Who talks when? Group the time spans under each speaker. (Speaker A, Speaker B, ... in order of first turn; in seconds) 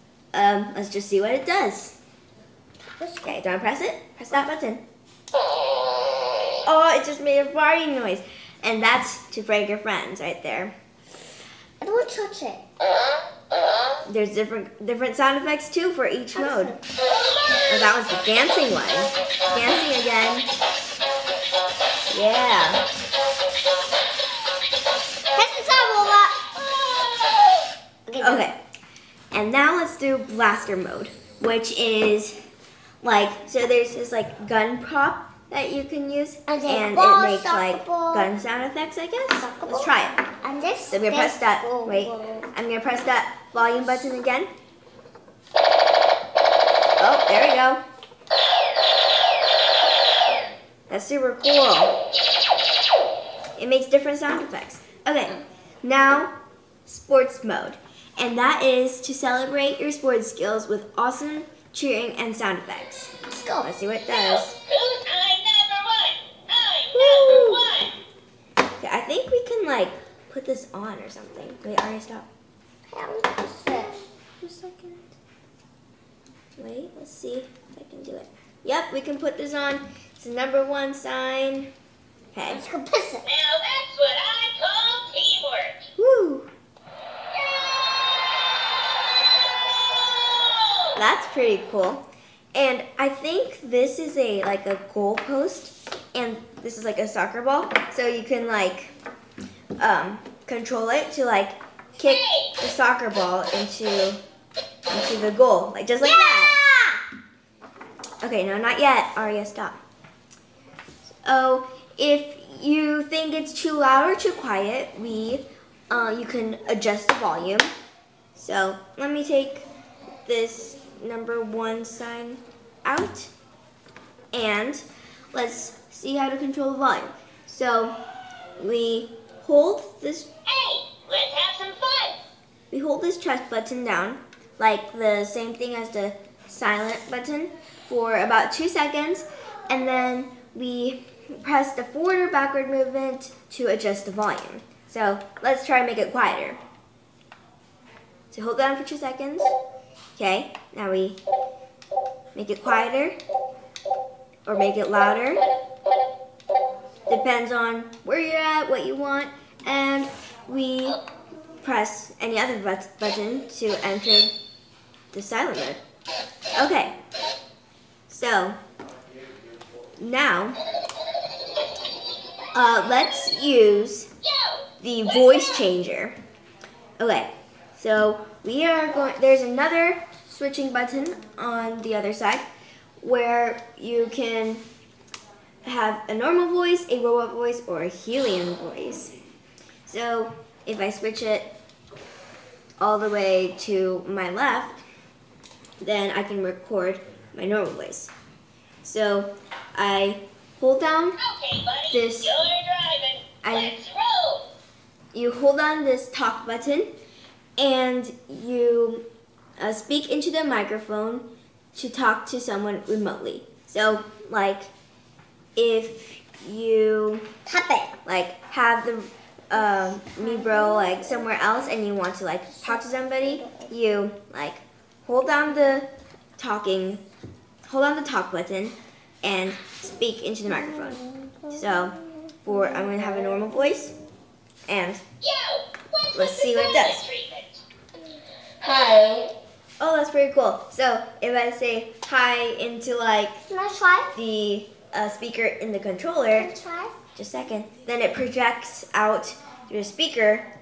Speaker A: 0.3-1.9, 3.2-4.8, 6.6-10.7, 14.1-16.8, 17.7-20.5, 22.1-22.8, 28.2-28.6, 29.3-32.4, 33.0-40.2, 40.9-44.5, 47.0-47.8, 50.9-51.9, 53.6-56.3, 56.9-64.5, 66.9-67.7, 68.8-72.2, 74.4-75.0, 76.6-81.7, 82.3-82.6, 86.0-86.5, 90.9-98.9, 99.8-104.2, 104.9-106.6, 108.2-109.8, 111.1-117.7, 118.3-119.6, 120.2-123.3, 124.3-127.9, 128.6-130.3, 132.7-146.6, 148.3-149.5, 150.2-151.2, 152.3-153.2, 154.4-155.4, 157.1-161.0, 161.6-164.3, 165.1-165.8, 166.5-166.9, 168.1-168.6, 170.0-170.6, 172.5-174.1, 174.8-176.2, 177.0-182.4, 183.0-184.6, 185.6-189.1, 189.9-191.5, 192.8-194.8, 195.8-198.1, 198.8-201.2, 201.9-202.4, 203.4-203.8, 205.1-206.9, 207.6-209.0, 209.6-214.7, 215.6-217.2, 218.0-227.0, 227.7-233.9, 234.7-235.0, 236.1-237.1, 239.8-243.4, 244.1-246.5, 247.2-250.4
Speaker B: 2.9-3.4, 11.8-12.6, 16.4-16.8, 25.3-26.4, 28.1-28.5, 36.5-38.3, 39.3-42.5, 63.3-63.7, 72.9-74.0, 82.5-83.3, 106.0-107.0, 217.4-217.9, 220.1-221.2, 222.6-223.7, 230.7-231.5, 243.5-244.1, 246.3-246.9
Speaker C: 64.7-67.9, 83.3-85.8, 102.0-102.3, 130.5-132.2, 201.2-204.4, 235.2-237.6, 238.6-239.3